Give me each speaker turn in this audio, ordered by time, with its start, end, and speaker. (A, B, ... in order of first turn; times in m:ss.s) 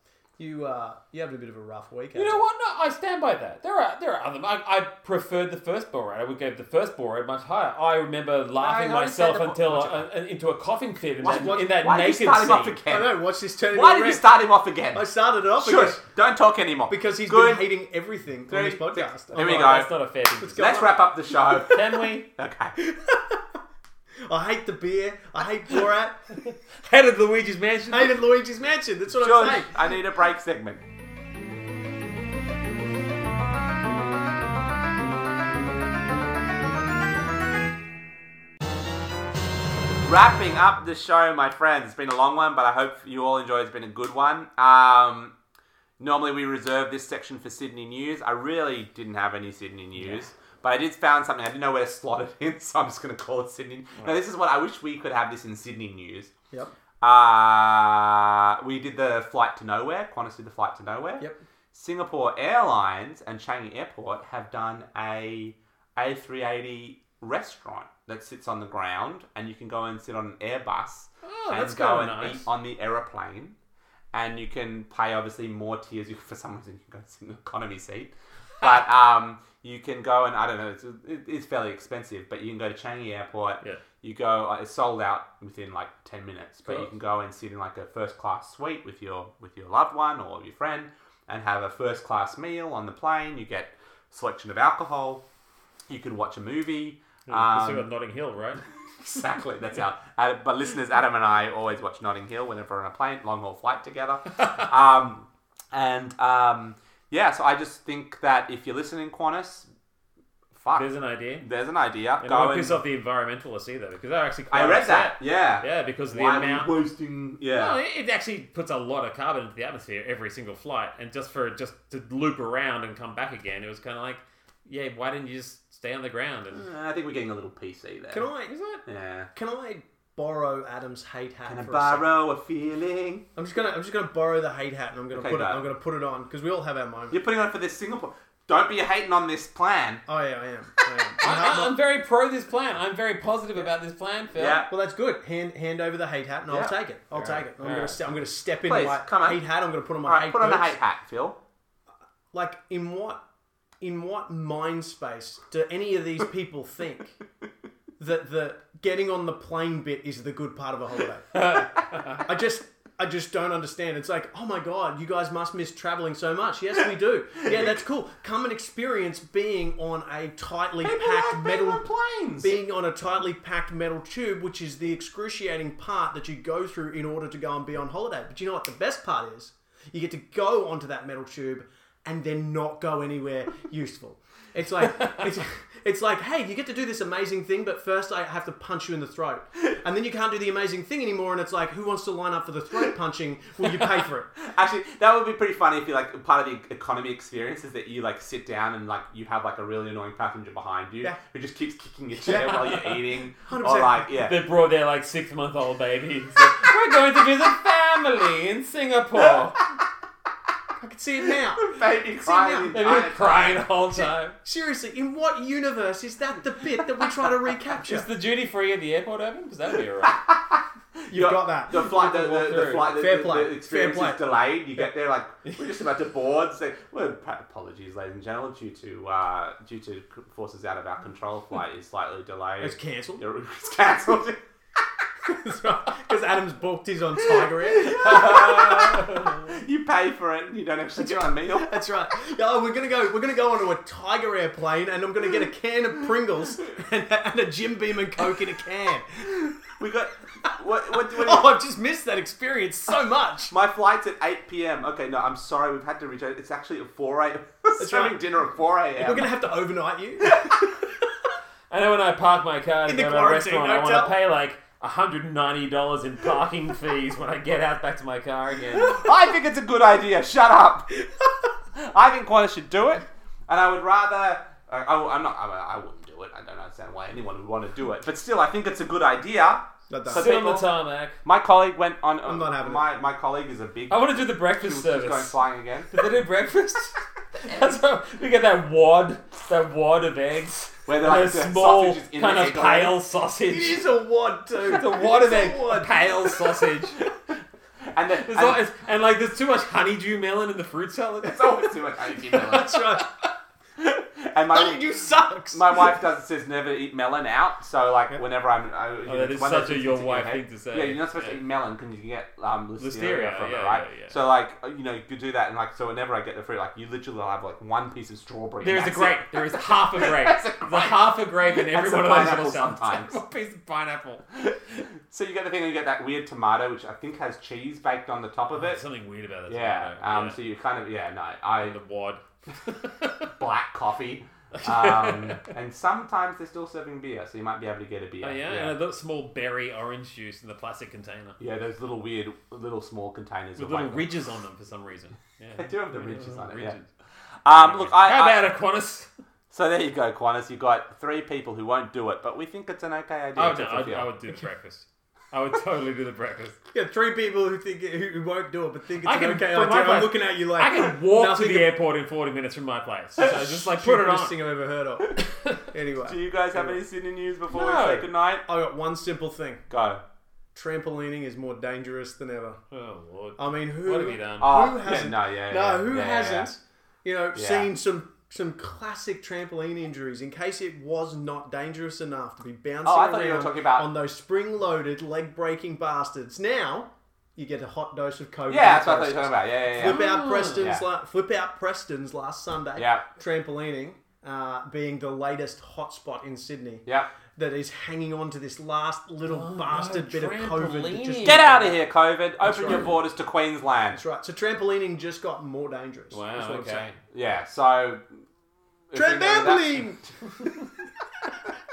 0:00.4-0:02.4 A
0:02.1-0:12.8 B
0:08.6-0:10.0 C
0:11.2-0:13.1 C
0:11.2-0:11.7 A
0:12.8-0:14.2 A
0:13.7-0:15.0 C
0:14.9-0:16.0 A
0:15.6-0:17.6 C
0:16.9-0:19.8 A
0:18.5-0:19.9 C
0:19.3-0:20.8 B
0:20.4-0:21.8 A
0:20.5-0:21.8 C
0:21.6-0:22.3 B
0:22.3-0:22.8 C
0:22.8-0:23.6 A
0:24.3-0:26.4 A
0:26.8-0:28.2 B
0:27.9-0:29.8 A
0:29.2-0:30.8 C
0:40.0-0:45.3 C
0:46.0-0:56.3 C
0:57.0-1:13.5 C
1:11.2-1:12.4 B
1:14.1-1:35.2 C
1:35.9-1:37.8 C
1:37.3-1:38.6 B
1:39.0-1:49.7 C
1:50.5-1:50.9 C
1:50.8-1:51.4 B
1:51.4-1:52.8 C
1:52.2-1:56.7 B
1:54.5-1:57.8 C
1:57.5-2:06.6 B
2:06.5-2:08.3 C
2:08.1-2:08.5 A
2:08.5-2:08.8 B
2:08.8-2:09.3 C
2:09.3-2:12.0 A
2:11.4-2:13.2 C
2:13.4-2:17.2 A
2:15.1-2:15.6 C
2:17.1-2:20.0 C
2:20.1-2:21.8 A
2:20.9-2:21.6 C
2:21.2-2:24.6 B
2:24.4-2:24.7 C
2:24.7-2:30.8 A
2:26.5-2:26.7 C
2:27.2-2:28.0 B
2:28.6-2:29.4 C
2:30.0-2:31.4 C
2:32.3-2:33.2 A
2:33.8-2:37.2 A
2:38.0-2:41.4 A
2:41.3-2:42.2 B
2:42.2-2:51.8 A
2:50.8-2:52.6 C
2:52.4-3:14.3 A
3:14.4-3:24.4 C
3:22.2-3:24.1 A
3:22.4-3:22.9 B
3:24.1-3:29.6 B
3:30.8-3:31.7 A
3:31.5-3:33.7 C
3:32.2-3:33.1 A
3:32.7-3:34.4 B
3:34.4-3:38.0 A
3:37.8-3:40.2 B
3:40.0-3:54.4 C
3:41.1-3:42.0 A
3:41.7-3:42.9 B
3:42.6-3:44.2 A
3:52.6-3:53.2 A
3:55.2-3:58.8 A
3:57.2-4:01.8 C
3:57.9-3:59.4 B
4:01.0-4:09.3 A
4:09.3-4:11.5 C
4:10.9-4:13.5 A
4:13.5-4:19.3 C
4:17.8-4:18.2 A
4:19.0-4:20.5 A
4:21.7-4:29.0 B
4:22.8-4:24.2 A
4:28.8-4:30.9 C
4:31.7-4:40.7 C
4:39.9-4:40.4 A
4:40.1-4:41.2 B
4:41.2-4:46.0 C
4:42.2-4:42.8 A
4:43.9-4:45.4 B
4:45.9-4:53.9 B
4:50.8-4:53.0 C
4:53.5-4:56.5 A
4:54.6-4:57.0 B
4:57.9-4:58.6 C
4:58.2-5:03.0 B
5:01.2-5:02.8 C
5:02.5-5:03.0 A
5:03.8-5:05.0 C
5:04.5-5:06.0 A
5:05.5-5:23.2 C
5:09.0-5:11.4 B
5:12.8-5:14.1 B
5:18.6-5:24.2 B
5:24.4-5:28.8 C
5:28.5-5:30.4 B
5:29.5-5:31.7 C
5:31.6-5:33.3 B
5:33.4-5:38.7 C
5:34.5-5:35.5 B
5:38.2-5:41.4 B
5:41.4-5:44.1 C
5:43.6-5:46.9 B
5:45.6-5:46.8 C
5:47.4-5:48.5 C
5:47.6-5:49.1 B
5:49.5-5:54.1 C
5:53.4-5:56.6 B
5:56.7-6:01.7 A
5:59.0-6:04.4 B
6:03.2-6:06.8 A
6:06.0-6:08.4 C
6:07.5-6:08.1 B
6:08.5-6:09.6 A
6:09.7-6:10.0 C
6:10.5-6:12.6 A
6:12.7-6:14.8 B
6:13.4-6:36.8 A
6:14.4-6:16.5 C
6:17.3-6:17.7 C
6:22.8-6:23.9 C
6:28.5-6:30.8 C
6:29.8-6:30.7 B
6:32.8-6:33.0 C
6:37.4-6:41.8 A
6:39.2-6:41.5 B
6:41.2-6:44.0 C
6:42.4-6:42.9 A
6:43.9-6:46.9 A
6:46.1-6:47.0 B
6:47.1-6:48.0 C
6:48.9-6:49.9 C
6:48.9-6:50.5 A